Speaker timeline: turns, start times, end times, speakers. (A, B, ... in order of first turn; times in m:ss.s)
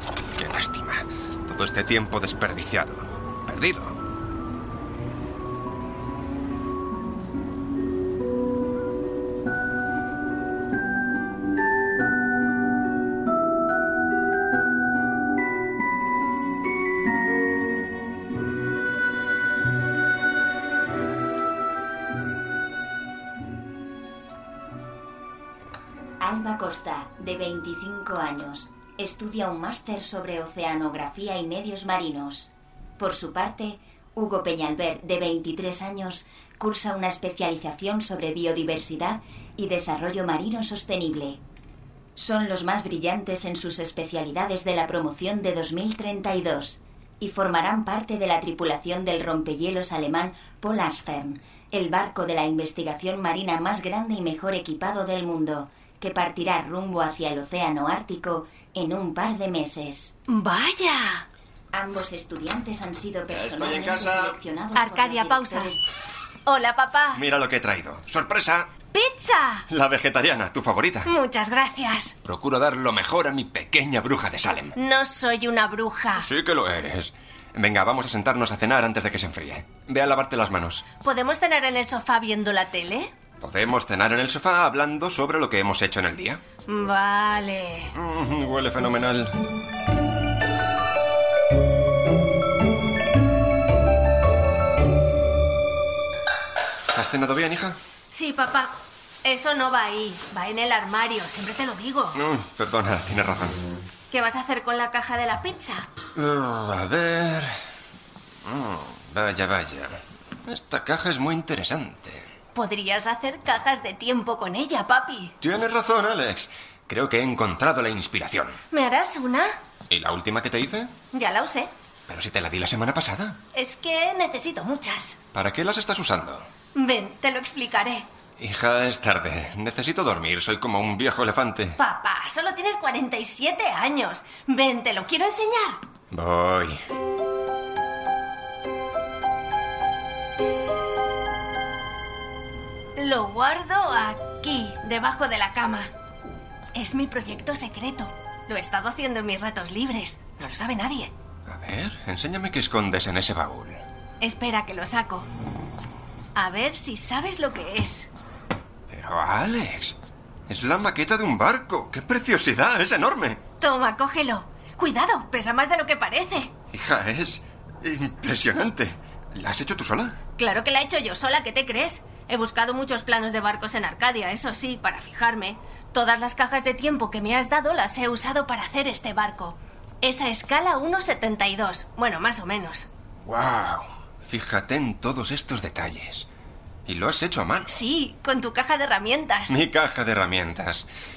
0:00.3-0:04.0 A
0:26.2-0:41.4 B
0:42.2-1:00.1 B
1:00.3-1:01.2 C
1:01.7-1:05.8 B
1:03.3-1:04.4 A
1:04.7-1:05.7 C
1:06.4-1:07.2 C
1:07.1-1:08.7 A
1:08.9-1:09.6 C
1:09.7-1:11.1 A
1:11.0-1:12.2 C
1:12.2-1:14.7 A
1:14.8-1:16.3 C
1:16.2-1:20.8 A
1:21.0-1:23.1 C
1:23.4-1:26.4 A
1:26.7-1:27.9 C
1:28.0-1:29.4 A
1:36.9-1:37.8 A
1:38.1-1:42.2 C
1:42.1-1:43.6 A
1:44.1-1:45.9 C
1:46.1-1:47.5 A
1:48.4-1:52.2 A
1:52.5-1:55.3 C
1:55.4-1:58.5 A
1:58.7-1:59.6 C
1:59.9-2:00.9 A
2:01.1-2:01.7 C
2:02.1-2:03.4 A
2:03.5-2:05.2 C
2:05.3-2:06.5 A
2:06.7-2:08.1 C
2:08.4-2:11.8 A
2:11.8-2:15.8 C
2:16.1-2:16.8 A
2:23.0-2:25.9 C
2:26.7-2:31.1 C
2:31.5-2:33.8 A
2:34.2-2:35.3 C
2:36.4-2:38.1 C
2:38.9-2:39.9 A
2:40.5-2:43.4 A
2:43.6-2:46.5 C
2:46.7-2:50.2 A
2:50.4-3:02.9 C
3:03.2-3:06.3 A
3:06.9-3:07.7 A
3:07.7-3:09.6 C
3:09.5-3:10.9 A